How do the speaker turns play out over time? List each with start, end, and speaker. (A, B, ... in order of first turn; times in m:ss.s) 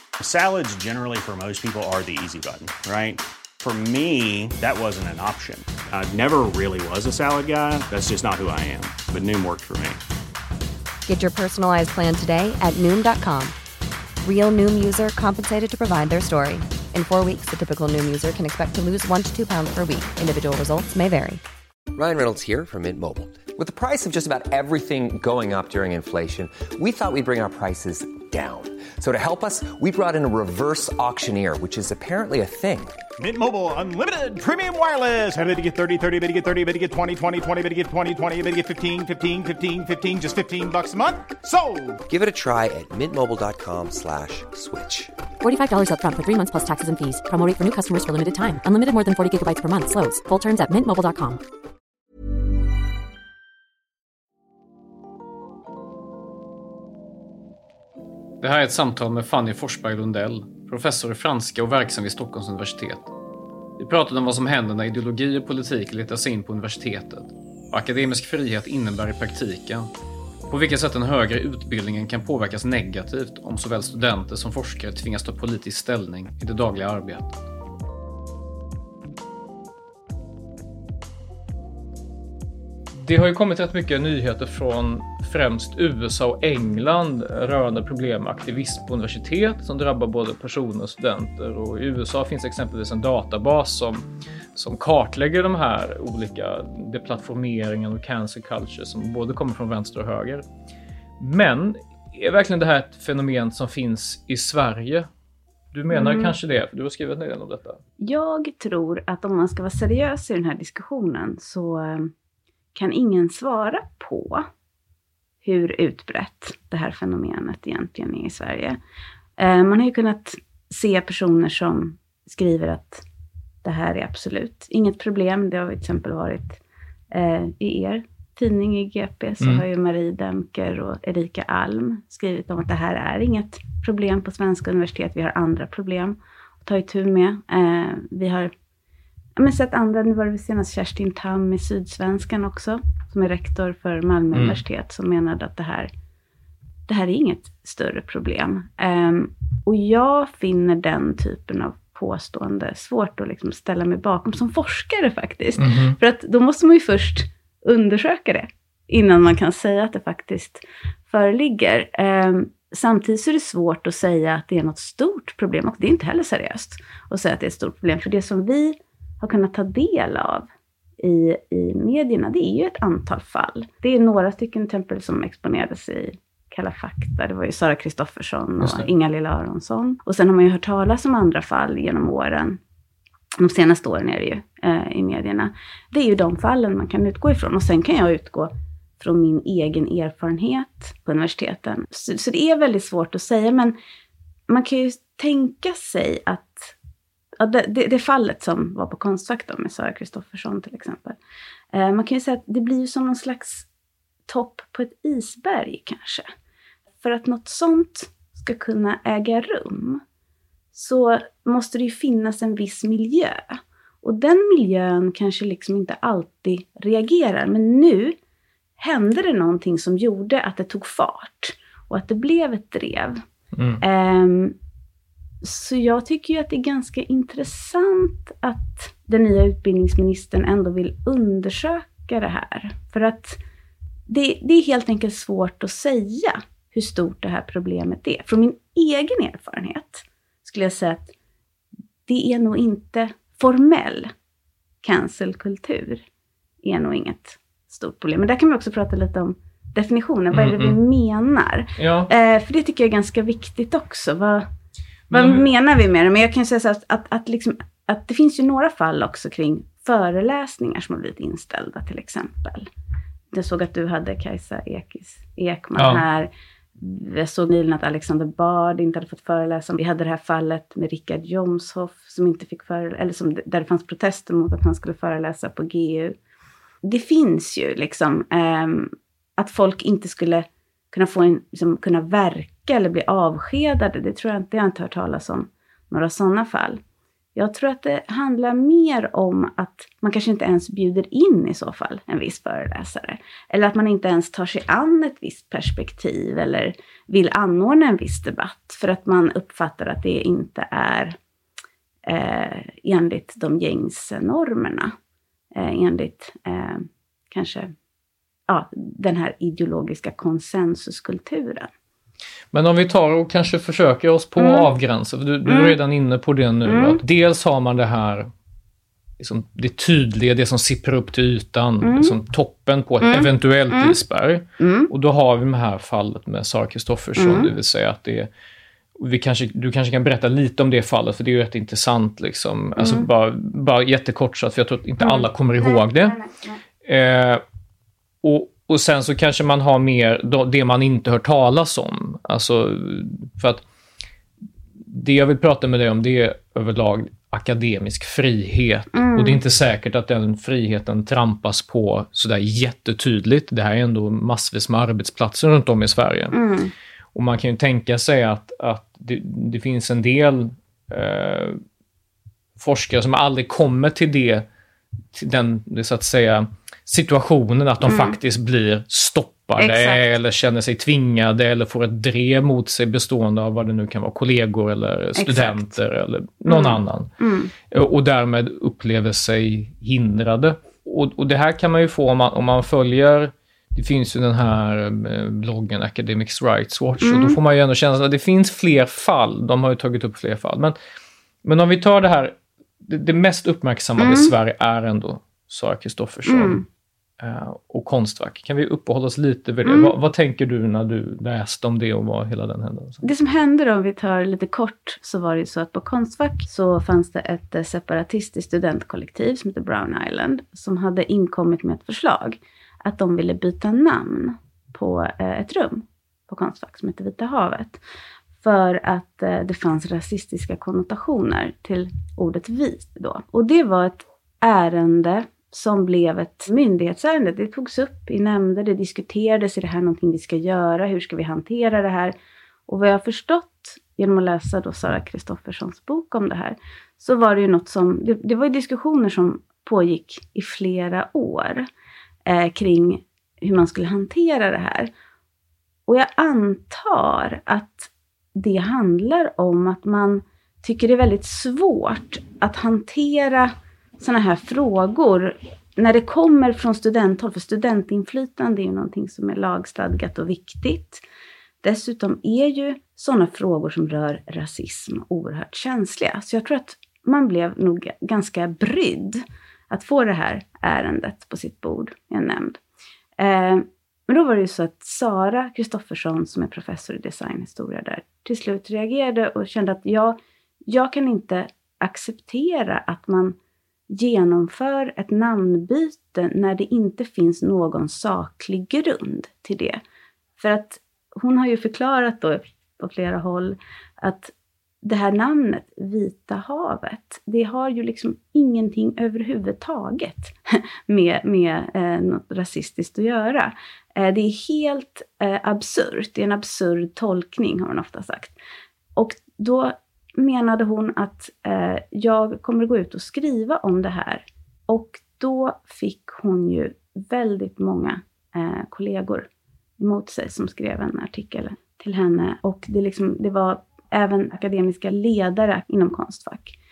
0:00.2-0:10.0 A
0:11.1-0:13.6 B
0:14.2-0:21.4 B
0:21.9-0:33.0 C
0:33.2-0:42.0 D
0:42.1-0:45.1 C
0:45.4-0:51.4 E
0:58.4-1:03.1 F
1:03.8-1:09.9 F
1:10.5-1:17.4 F
1:23.0-1:40.4 F
1:41.2-1:45.1 F
1:45.7-1:47.8 F
1:45.9-1:46.4 G
1:48.0-1:52.1 G
1:52.7-1:54.5 G
1:55.4-1:58.8 G
1:59.4-2:03.0 G
2:03.6-2:06.6 G
2:07.1-2:18.5 G
2:09.4-2:09.7 F
2:19.4-2:25.9 G
2:24.3-2:24.6 F
2:26.9-2:50.5 G
2:35.6-2:36.0 F
2:51.0-3:02.6 G
2:58.6-2:58.9 F
3:03.4-3:13.8 G
3:14.5-3:16.8 G
3:17.4-3:21.2 G
3:21.7-3:23.7 G
3:24.3-3:26.3 G
3:27.0-3:30.0 G
3:30.7-3:38.2 G
3:38.8-3:43.2 G
3:43.5-3:43.8 F
3:43.8-3:44.6 G
3:45.4-3:53.4 G
3:54.1-4:01.1 G
4:02.1-4:04.1 G
4:04.8-4:06.0 G
4:06.6-4:14.5 G
4:10.3-4:10.8 F
4:11.8-4:12.1 F
4:15.1-4:15.4 F
4:15.1-4:22.7 G
4:23.3-4:36.2 G
4:25.8-4:26.0 F
4:36.8-4:46.8 G
4:47.4-5:01.2 G
5:02.1-5:04.9 G
5:05.6-5:07.7 G
5:08.5-5:11.7 G
5:12.5-5:18.3 F
5:14.4-5:14.7 G
5:15.5-5:15.8 G
5:16.7-5:17.0 G
5:19.2-5:28.3 F
5:21.8-5:22.2 G
5:23.0-5:24.0 G
5:24.6-5:24.9 G
5:27.2-5:27.5 G
5:29.0-5:36.2 F
5:32.8-5:33.1 G
5:35.0-5:36.5 G
5:36.8-5:37.4 F
5:38.2-5:43.6 F
5:44.8-5:56.4 F
5:48.9-5:49.4 G
5:56.3-5:56.7 G
5:57.1-6:01.6 F
6:02.6-6:04.5 F
6:05.1-6:17.1 F
6:07.9-6:08.2 G
6:09.6-6:10.1 G
6:15.2-6:15.8 G
6:16.5-6:17.5 G
6:17.7-6:30.8 F
6:27.0-6:27.4 G
6:31.4-6:36.6 F
6:34.0-6:34.3 G
6:36.3-6:36.6 G
6:37.2-6:43.0 F
6:39.6-6:39.9 G
6:43.0-6:57.8 G
6:58.4-7:12.2 G
7:12.7-7:21.7 G
7:22.3-7:24.9 G
7:25.9-7:41.0 G
7:41.6-7:52.6 G
7:53.2-8:03.4 G
8:03.9-8:09.8 G
8:10.4-8:28.4 G
8:29.0-8:46.6 G